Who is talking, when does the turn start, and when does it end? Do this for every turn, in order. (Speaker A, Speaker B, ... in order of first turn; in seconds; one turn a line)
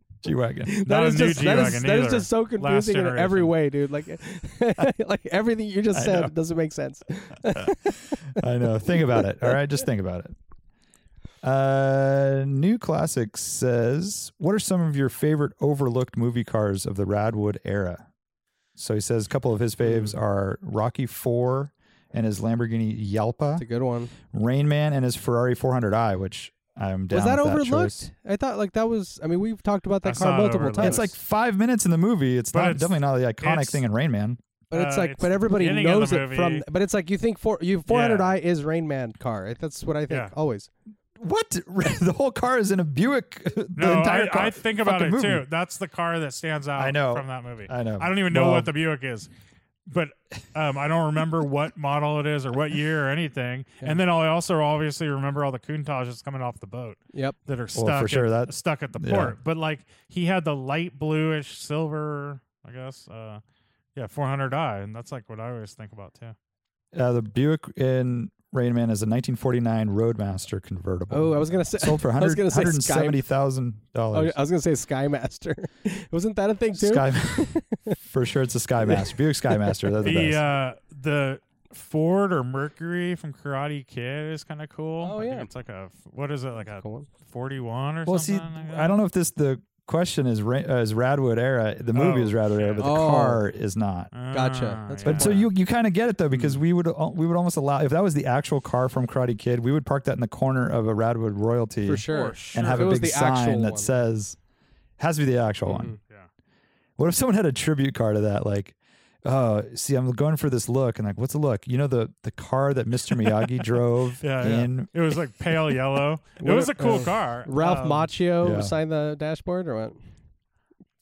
Speaker A: 0.2-0.8
Speaker B: 0.7-9.6
Speaker C: 0.9-3.5
Speaker A: 5.9-6.3
Speaker A: 7.5-10.3
Speaker A: 11.4-18.1
Speaker A: 18.8-23.6
Speaker B: 19.9-20.1
Speaker B: 23.6-24.1
Speaker A: 24.3-28.1
Speaker B: 27.1-31.1
Speaker C: 30.1-31.1
Speaker A: 30.8-34.4
Speaker C: 32.5-33.8
Speaker B: 34.7-40.7
Speaker C: 34.7-36.6
Speaker C: 37.9-38.4
Speaker A: 41.2-45.5
Speaker C: 43.8-49.3
Speaker A: 46.8-48.7
Speaker C: 49.9-63.4
Speaker A: 57.8-59.4
Speaker C: 64.0-66.4
Speaker A: 66.9-74.4
Speaker B: 71.1-73.2
Speaker B: 74.1-78.0
Speaker A: 76.8-80.4
Speaker B: 78.8-80.1
Speaker C: 80.0-89.0
Speaker B: 85.0-85.5
Speaker B: 86.8-87.1
Speaker A: 88.1-94.1
Speaker C: 91.9-93.0
Speaker B: 92.8-93.4
Speaker C: 94.1-95.4
Speaker B: 94.3-95.5
Speaker A: 95.1-104.4
Speaker B: 101.8-103.9
Speaker C: 102.1-103.1
Speaker A: 105.0-105.9
Speaker B: 105.7-106.0
Speaker C: 106.0-106.3
Speaker A: 107.0-114.9
Speaker C: 114.2-118.1
Speaker B: 116.4-120.0
Speaker A: 118.4-118.7